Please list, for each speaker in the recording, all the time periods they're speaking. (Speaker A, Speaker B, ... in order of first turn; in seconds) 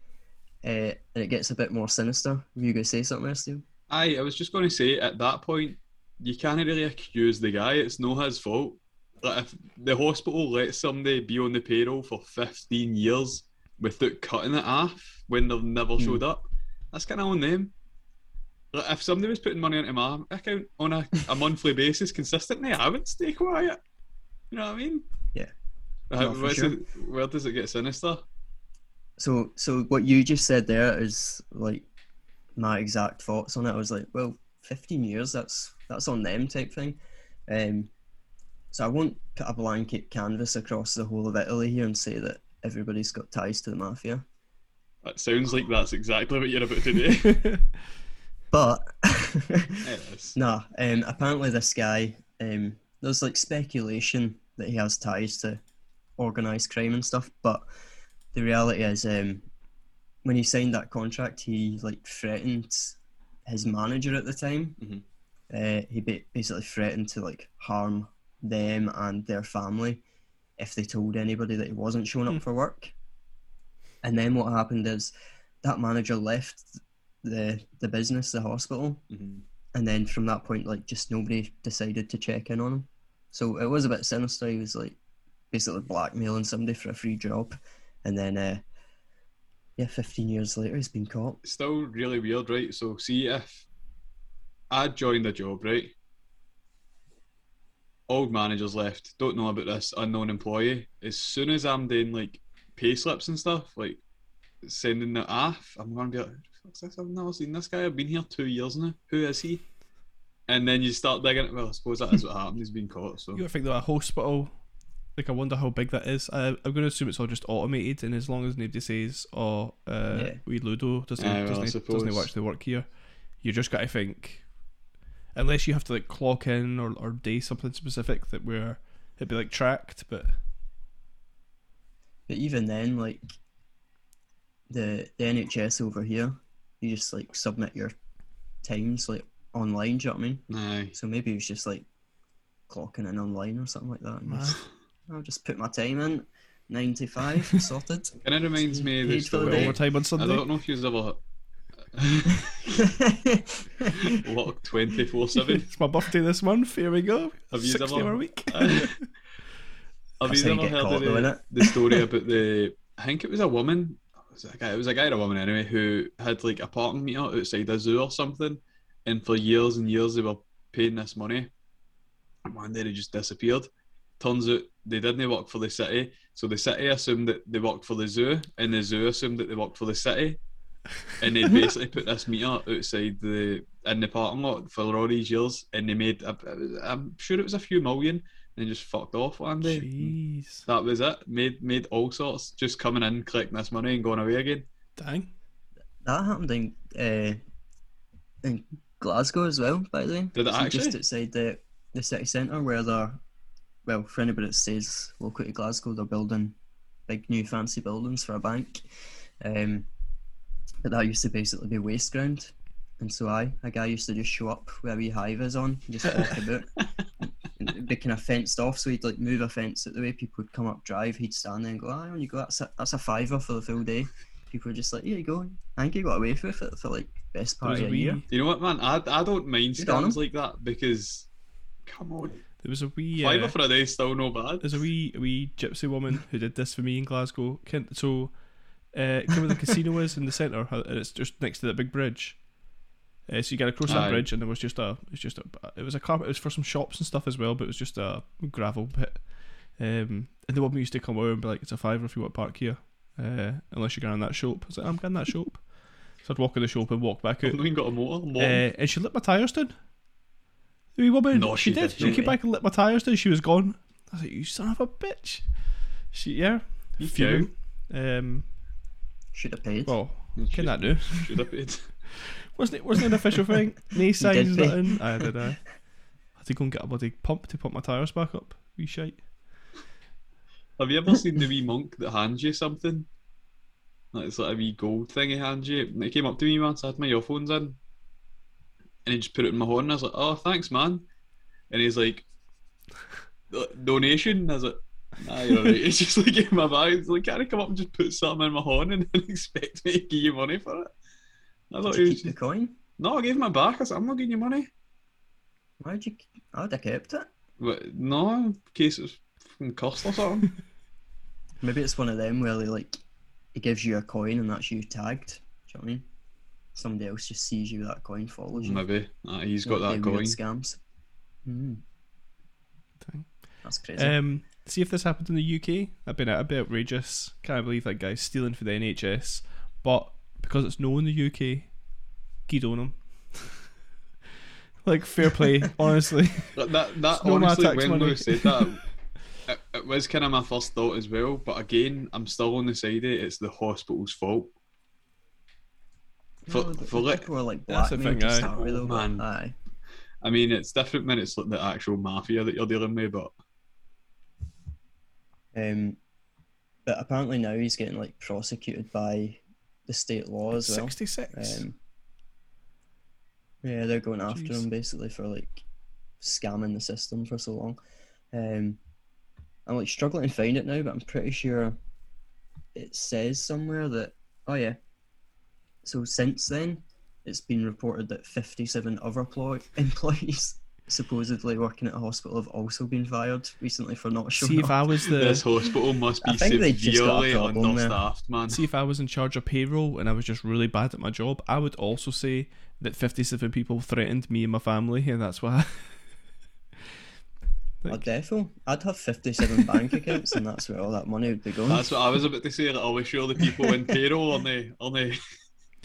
Speaker A: 0.6-3.6, 16.0-16.2, 26.2-26.8, 29.2-31.9, 32.6-37.9, 38.7-44.2, 48.5-55.6, 56.2-57.7, 58.3-59.5, 60.2-64.8, 65.5-70.0, 70.6-72.9, 74.0-75.1, 75.6-79.0, 79.7-85.0, 85.5-88.7, 89.8-91.4, 120.1-120.4, 132.3-133.2, 134.7-137.9, 138.6-141.9, 142.7-149.8, 152.8-154.0, 160.2-162.1, 196.0-197.4, 198.4-203.2, 203.9-206.6, 207.1-208.8, 209.4-209.9, 210.8-228.2, 229.8-230.2, 261.9-262.4, 269.3-270.0, 274.2-275.3, 301.9-302.8, 305.8-307.3, 311.6-313.0, 313.5-316.1, 316.8-318.8, 319.6-320.8, 321.4-321.8, 323.6-324.2, 346.5-349.6, 355.5-356.0, 356.9-361.8, 363.6-365.6, 366.2-367.8, 368.3-368.8, 369.7-371.8, 372.8-374.8, 375.8-384.8, 386.2-388.0, 397.9-401.9
Speaker B: 3.9-17.7, 18.7-23.8, 24.5-25.1, 26.1-28.2, 45.0-47.5, 49.8-50.4, 79.1-79.5, 91.4-93.7, 94.7-95.9, 98.1-104.0, 104.6-109.7, 110.5-113.4, 121.2-122.3, 140.5-140.9, 148.2-151.2, 151.9-152.9, 153.9-155.7, 157.5-159.0, 160.2-171.5, 172.5-180.4, 181.2-194.7, 200.3-201.0, 228.3-231.3, 231.9-232.4, 233.2-234.8, 243.9-244.3, 257.4-258.6, 261.3-262.2, 267.0-267.5, 270.4-271.9, 280.8-283.1, 284.1-287.8, 289.1-291.1, 291.7-292.3, 293.5-300.9, 301.7-302.3, 303.0-304.7, 307.6-310.5, 318.6-320.4, 336.6-338.9, 339.5-344.5, 346.5-347.3, 348.4-349.2, 350.2-353.3, 385.1-388.6, 401.7-405.2
Speaker C: 113.3-114.5, 115.2-124.5, 125.3-130.4, 144.2-144.6, 149.4-150.5, 155.6-159.1, 189.6-190.7, 195.0-195.3, 227.6-228.3, 232.6-233.6, 234.6-242.5, 243.3-257.6, 258.4-259.7, 261.0-265.6, 266.1-268.5, 269.9-271.3, 272.1-275.7, 276.4-279.3, 323.0-331.8, 332.5-333.6, 334.8-336.6, 337.1-338.8, 347.7-348.5, 360.5-361.7, 364.3-364.7, 384.4-385.4, 388.5-396.0, 397.8-398.1